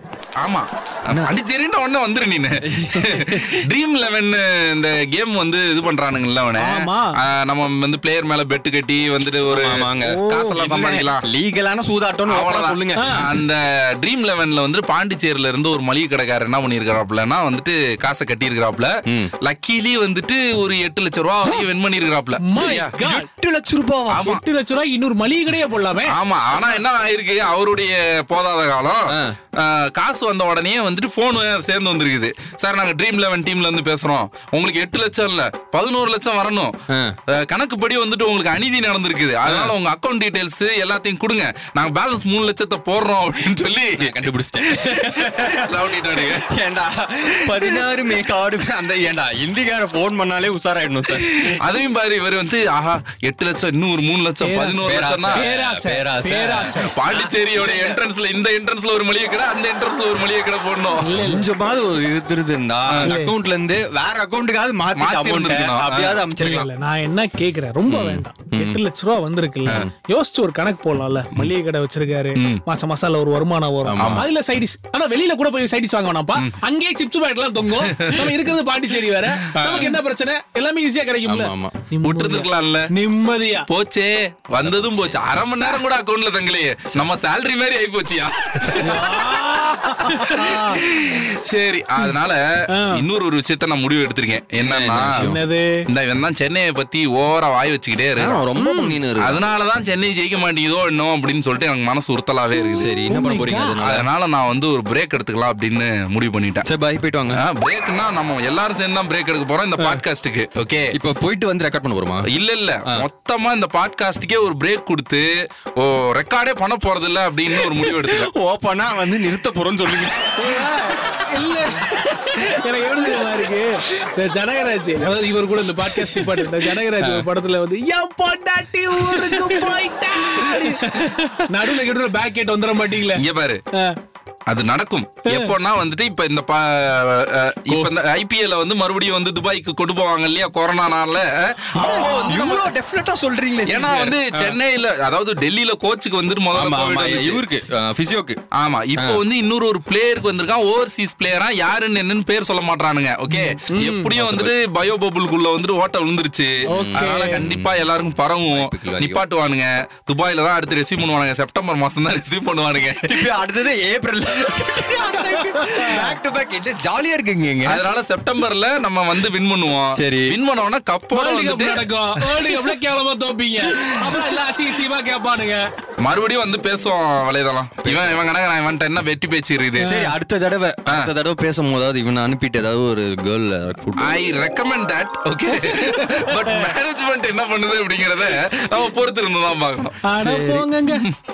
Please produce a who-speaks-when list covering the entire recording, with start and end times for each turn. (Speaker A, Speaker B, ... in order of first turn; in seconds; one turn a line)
Speaker A: 0.4-11.2
Speaker B: 2.6-3.6
Speaker C: 6.6-7.2
Speaker B: 9.5-13.4
Speaker C: 10.0-10.5
Speaker A: 12.3-23.0
Speaker C: 12.9-13.2
Speaker C: 22.4-23.3
Speaker B: 22.6-24.4
Speaker A: 24.1-24.4
Speaker C: 24.2-26.2
Speaker A: 26.1-36.7
Speaker B: 29.1-29.4
Speaker B: 36.9-37.1
Speaker A: 37.3-44.1
Speaker B: 39.4-39.7
Speaker B: 44.0-51.6
Speaker A: 44.6-46.5
Speaker A: 47.5-47.8
Speaker A: 51.2-55.4
Speaker C: 54.6-56.8
Speaker B: 54.8-58.0
Speaker A: 56.8-61.0
Speaker C: 61.1-61.4
Speaker B: 61.1-66.7
Speaker C: 63.1-63.3
Speaker A: 64.9-66.6
Speaker C: 66.4-83.7
Speaker B: 67.8-68.8
Speaker A: 72.4-72.6
Speaker B: 73.8-74.2
Speaker A: 74.0-74.2
Speaker A: 77.8-78.2
Speaker A: 79.5-79.8
Speaker B: 79.5-79.9
Speaker B: 81.2-81.8
Speaker A: 82.0-82.9
Speaker A: 83.7-89.3
Speaker B: 84.6-85.5
Speaker C: 88.8-90.8
Speaker A: 90.1-95.1
Speaker B: 94.6-95.5
Speaker C: 95.2-95.8
Speaker A: 95.9-98.4
Speaker B: 98.2-99.4
Speaker C: 98.5-99.0
Speaker A: 99.2-102.9
Speaker B: 102.7-104.1
Speaker C: 103.1-103.8
Speaker A: 103.8-106.7
Speaker B: 106.6-107.4
Speaker A: 107.3-110.9
Speaker B: 110.9-112.3
Speaker A: 112.2-118.3
Speaker B: 117.5-120.4
Speaker C: 120.4-134.0
Speaker B: 129.1-129.4
Speaker A: 130.4-130.7
Speaker A: 133.1-133.6
Speaker A: 134.5-142.7
Speaker B: 137.7-137.9
Speaker B: 141.8-144.6
Speaker C: 141.9-142.4
Speaker A: 143.7-147.4
Speaker B: 146.5-148.4
Speaker A: 148.6-163.2
Speaker B: 148.9-149.2
Speaker C: 153.7-154.1
Speaker B: 154.1-154.5
Speaker C: 156.7-157.5
Speaker B: 156.7-159.2
Speaker B: 163.0-167.8
Speaker C: 165.2-166.2
Speaker A: 167.7-171.9
Speaker B: 169.9-170.4
Speaker C: 171.1-175.6
Speaker A: 176.0-179.9
Speaker B: 177.8-178.2
Speaker C: 179.8-180.1
Speaker B: 179.8-184.2
Speaker A: 184.0-190.0
Speaker C: 185.7-186.7
Speaker C: 190.1-191.1
Speaker B: 190.2-190.7
Speaker A: 190.8-191.1